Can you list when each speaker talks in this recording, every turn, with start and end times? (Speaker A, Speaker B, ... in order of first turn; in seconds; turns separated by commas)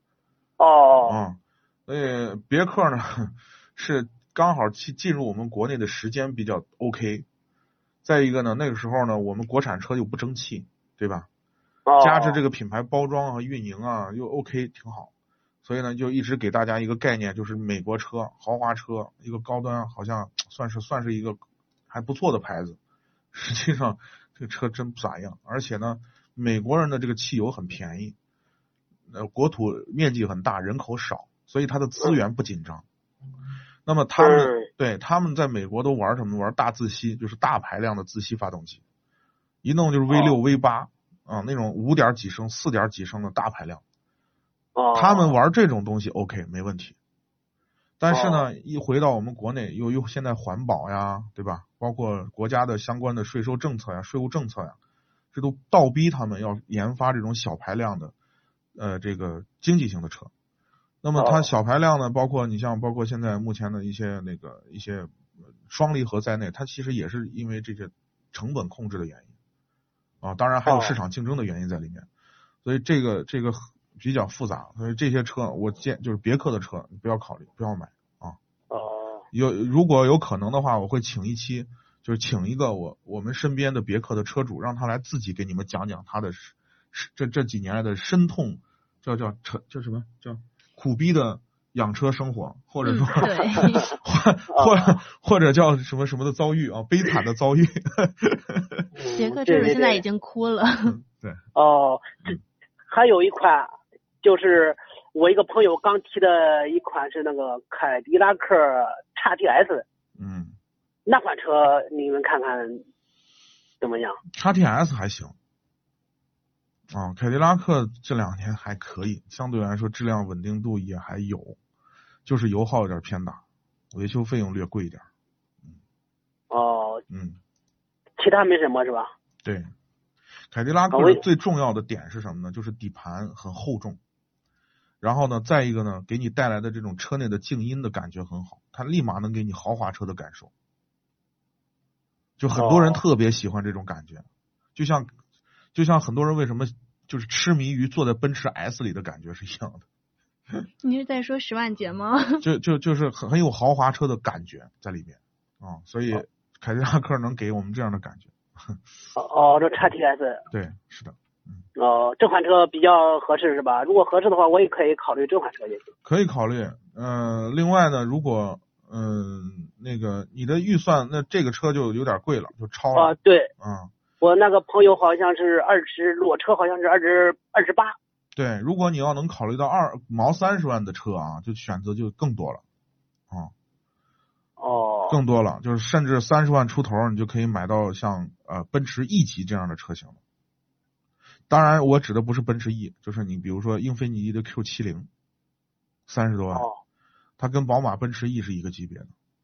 Speaker A: 0.6-1.2, Speaker B: 1.0-7.2, Speaker B: 8.0-11.3, Speaker A: 11.8-12.4, Speaker B: 12.0-15.1, Speaker B: 15.6-22.8, Speaker B: 23.3-28.1, Speaker B: 29.1-32.8, Speaker B: 33.9-38.8, Speaker A: 34.2-34.7, Speaker B: 39.6-43.8, Speaker A: 40.1-40.4, Speaker A: 44.7-45.4, Speaker B: 44.9-47.0, Speaker B: 48.0-54.8, Speaker A: 48.1-48.5, Speaker B: 55.3-58.1, Speaker B: 58.8-60.3, Speaker B: 61.0-65.1, Speaker A: 61.2-61.5, Speaker B: 65.7-69.3, Speaker B: 70.2-72.0, Speaker A: 70.6-71.0, Speaker B: 72.6-78.4, Speaker A: 78.7-79.2, Speaker B: 79.3-98.8, Speaker C: 92.8-93.8, Speaker A: 93.6-93.9, Speaker A: 94.5-95.0, Speaker A: 99.0-100.0, Speaker C: 99.1-101.0, Speaker B: 100.9-101.4, Speaker A: 101.5-102.3, Speaker A: 102.9-103.7, Speaker A: 104.2-109.8, Speaker B: 110.2-110.5, Speaker A: 111.0-112.8, Speaker A: 113.8-114.2, Speaker B: 114.3-115.3, Speaker B: 116.9-121.6, Speaker B: 122.2-123.4, Speaker B: 123.9-125.0, Speaker A: 126.5-127.0, Speaker B: 127.1-127.4, Speaker A: 128.2-129.1, Speaker B: 129.4-129.7, Speaker B: 130.5-134.0, Speaker A: 130.9-131.2, Speaker B: 135.0-140.5, Speaker B: 142.4-144.2, Speaker A: 142.5-143.0, Speaker B: 144.8-145.1, Speaker B: 145.7-149.8, Speaker C: 150.8-152.4, Speaker B: 152.4-158.8, Speaker A: 159.1-160.4, Speaker B: 160.5-161.6, Speaker A: 161.8-165.8, Speaker B: 166.0-173.9, Speaker A: 172.9-173.5, Speaker A: 174.2-177.9, Speaker B: 178.3-182.6, Speaker A: 184.6-185.2, Speaker B: 185.1-190.2, Speaker B: 191.5-195.1, Speaker B: 196.1-196.7, Speaker A: 196.5-196.8, Speaker B: 197.4-199.1